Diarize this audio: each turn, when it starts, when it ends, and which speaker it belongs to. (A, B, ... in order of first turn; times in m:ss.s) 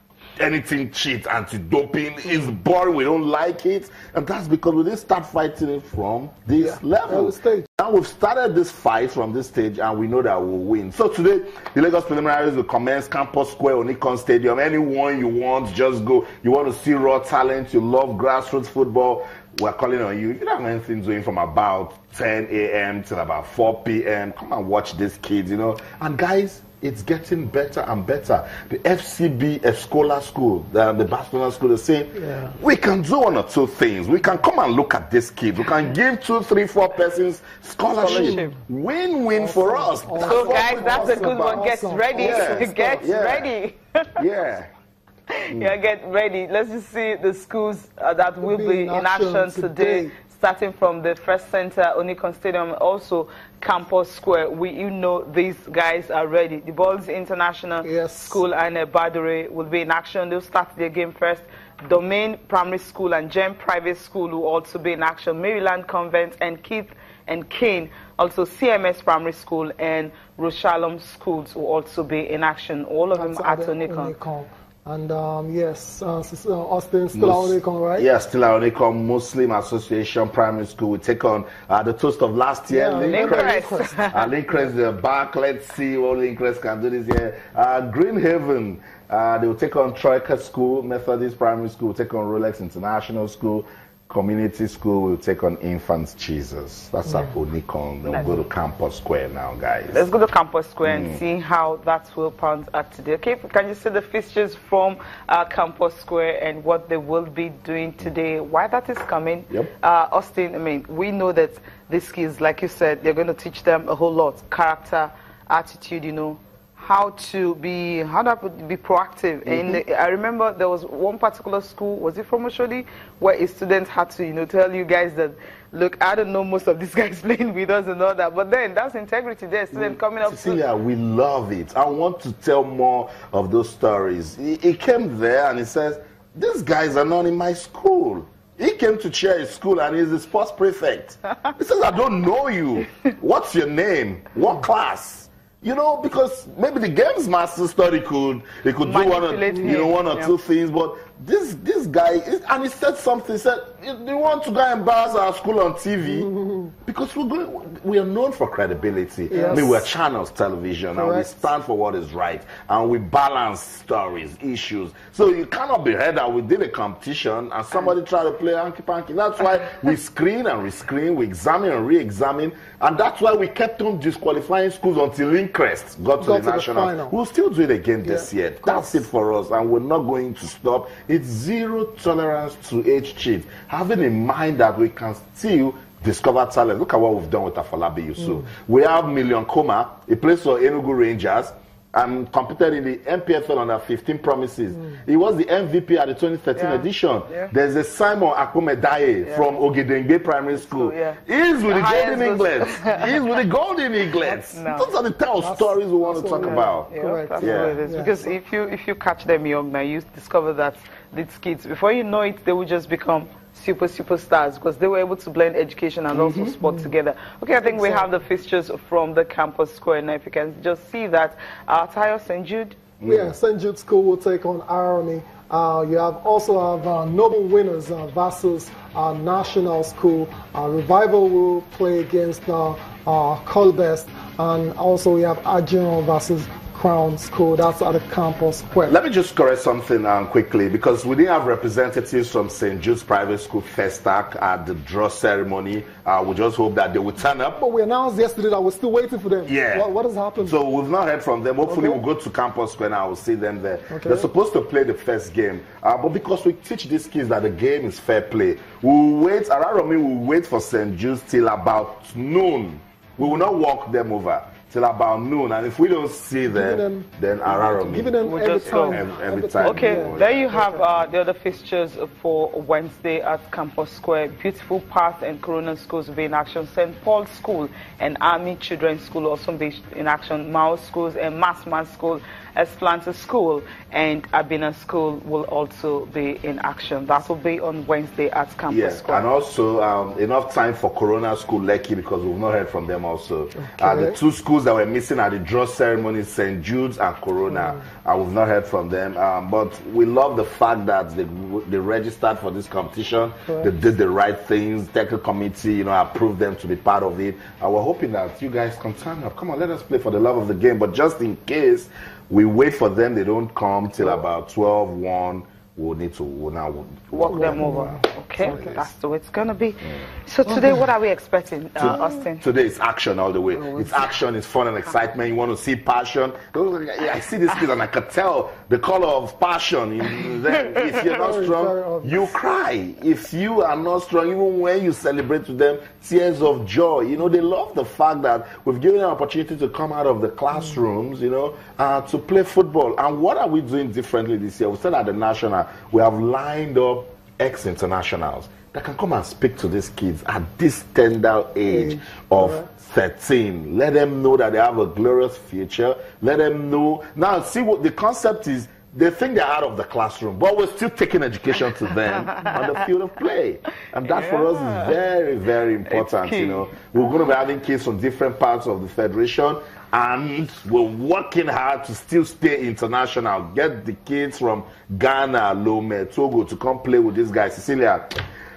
0:00.4-0:43.5 A
0:06.6-0:07.7 B
0:32.2-0:32.5 B
0:38.0-0:38.6 C
0:38.0-0:38.5 B
0:39.4-0:43.1 B
0:40.2-0:44.2 C
0:44.2-0:44.7 A
0:45.3-1:14.2 C
0:48.4-0:50.1 B
0:57.8-0:58.4 B
1:13.1-1:18.1 B
1:17.1-1:40.1 A
1:22.7-1:24.0 B
1:23.0-1:24.3 C
1:38.1-1:38.4 C
1:39.9-2:10.6 C
1:40.8-1:41.2 A
1:59.4-1:59.8 A
2:09.7-2:36.3 A
2:28.8-2:30.4 C
2:29.5-2:29.8 B
2:36.0-2:36.8 B
2:36.8-3:26.9 A
2:39.3-2:39.9 B
2:39.3-2:39.6 C
2:40.9-2:41.5 B
2:56.2-2:57.1 B
2:58.0-2:59.0 B
3:16.6-3:17.5 C
3:19.2-3:19.6 C
3:20.5-3:23.4 C
3:24.5-3:24.9 C
3:25.4-3:28.4 B
3:26.2-3:42.8 C
3:27.4-3:27.8 A
3:36.1-3:36.6 A
3:36.6-3:36.9 B
3:37.6-3:38.1 B
3:43.0-3:43.3 A
3:43.0-3:59.0 B
3:58.8-4:07.6 A
4:07.6-4:10.6 B
4:09.4-4:30.5 A
4:11.6-4:12.0 B
4:13.9-4:14.3 B
4:23.2-4:23.5 B
4:26.4-4:30.9 B
4:28.2-4:29.0 C
4:29.6-4:49.3 C
4:48.7-5:18.9 A
4:53.6-4:54.2 B
4:57.5-4:57.9 B
5:03.4-5:03.7 B
5:17.1-5:22.4 C
5:17.3-5:18.8 B
5:20.4-5:20.8 B
5:21.8-6:18.2 A
5:23.6-5:23.9 C
5:31.0-5:32.4 B
5:51.6-5:52.7 B
6:04.0-6:05.0 C
6:05.9-6:06.7 C